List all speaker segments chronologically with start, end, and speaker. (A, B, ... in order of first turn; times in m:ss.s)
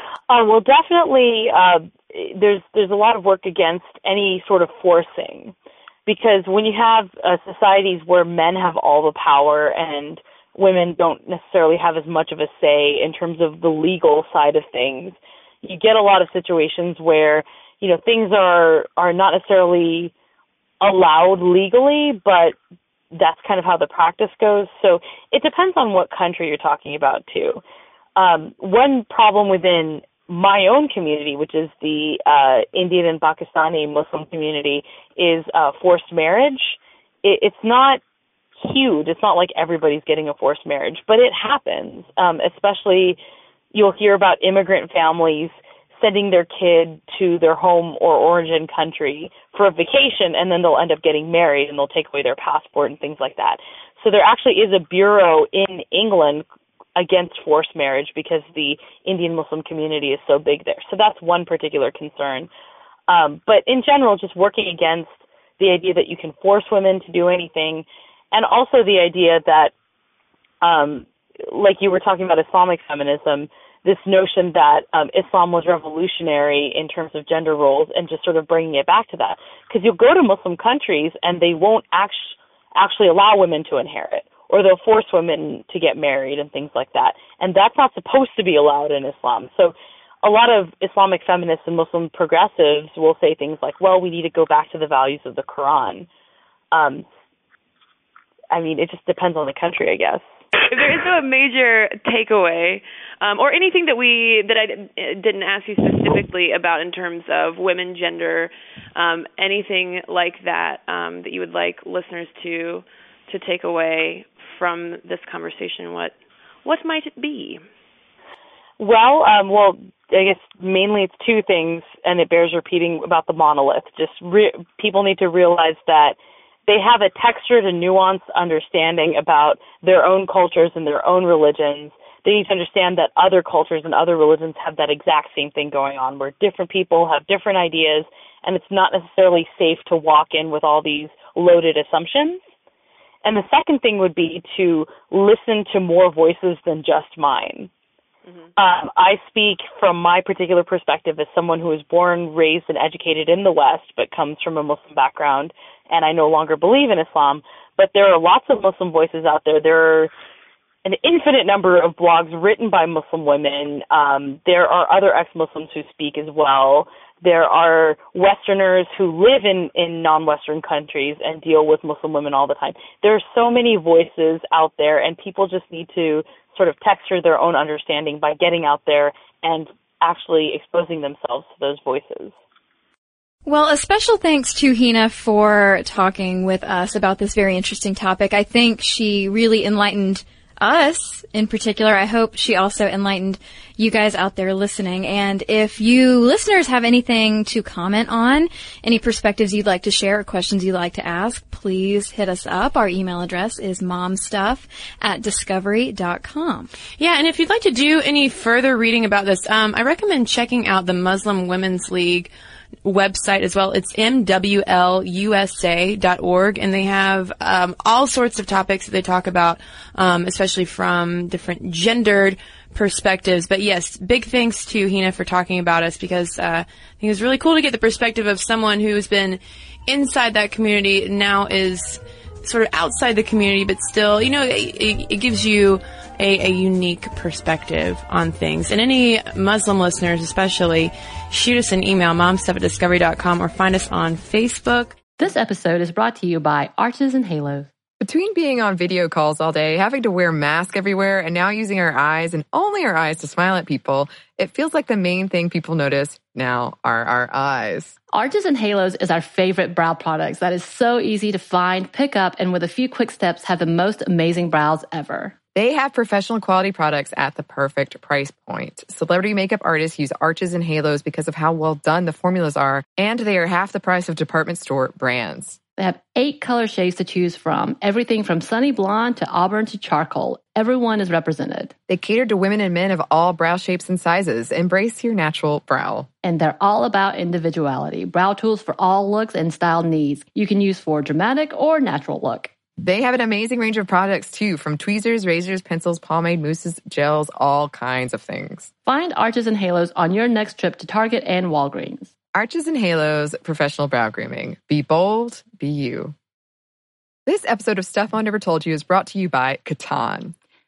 0:00.3-0:05.5 A
0:06.0-0:20.1 A
0:20.8-0:22.6 A
0:23.1-0:27.6 A
0:28.2-0:38.0 A
0:38.6-0:43.2 A
0:43.7-0:56.4 A
0:57.0-1:02.5 A
1:03.1-1:09.7 A
1:10.6-1:36.1 A
1:36.7-1:37.0 A
1:38.5-1:40.2 A
1:40.7-1:57.6 B
1:58.8-2:22.4 A
2:23.2-2:27.7 A
2:28.6-2:40.1 A
2:40.8-3:02.3 A
3:03.4-3:26.7 C
3:27.0-3:32.3 D
3:32.8-4:05.0 D
4:05.2-4:07.7 E
4:08.0-4:18.0 F
4:18.1-4:25.3 E
4:25.6-4:35.6 F
4:35.8-4:41.7 E
4:41.9-4:46.1 F
4:46.2-4:52.5 E
4:52.8-4:58.7 F
4:58.8-5:02.1 E
5:02.3-5:06.1 F
5:07.3-5:10.3 F